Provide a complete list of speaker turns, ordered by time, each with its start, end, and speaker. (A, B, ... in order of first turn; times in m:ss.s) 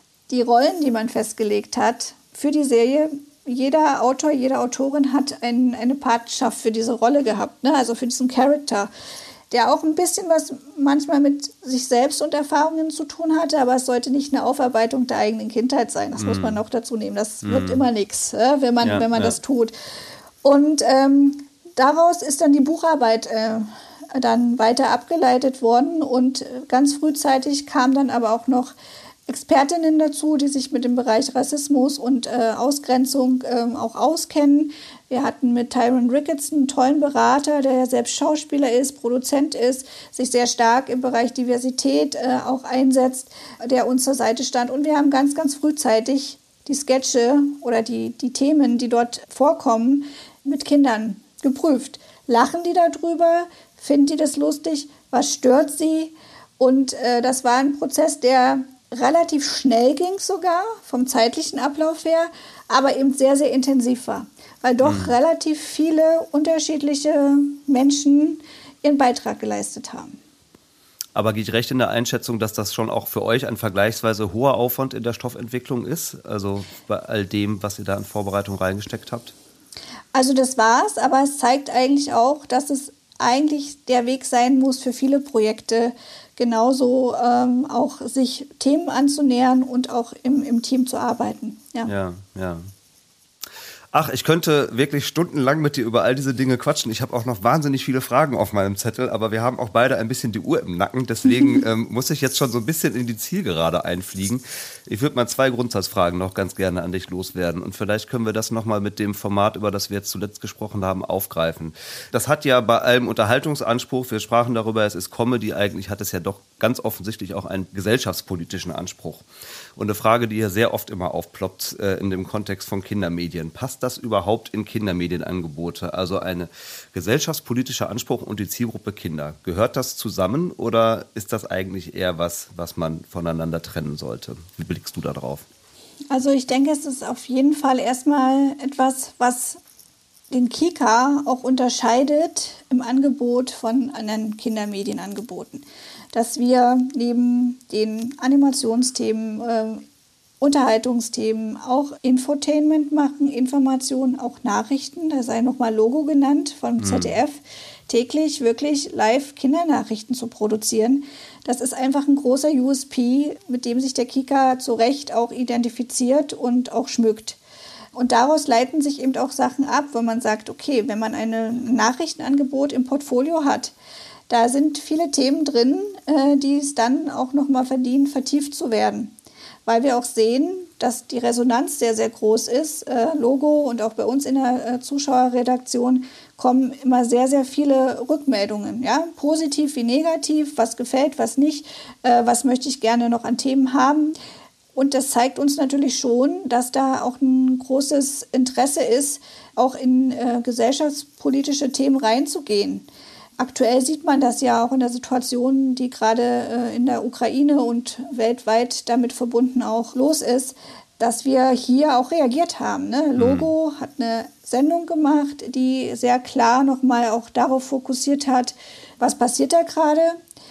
0:00.3-0:08.9 A
0:09.5-0:19.7 A
0:16.2-0:16.6 B
0:17.4-0:17.8 B
0:18.8-0:19.4 B
0:20.4-0:28.7 A
0:29.3-1:10.2 A
1:04.8-1:05.1 B
1:11.2-1:19.4 B
1:20.1-1:31.9 A
1:31.8-1:32.7 B
1:33.9-1:59.2 B
1:59.8-2:15.5 B
2:16.1-2:19.6 A
2:20.3-2:29.8 A
2:30.4-2:47.4 A
2:36.8-2:37.2 B
2:48.0-2:53.7 A
2:54.3-2:59.1 A
2:59.7-3:14.2 A
3:14.8-3:22.9 A
3:23.4-3:40.2 A
3:33.2-3:33.5 B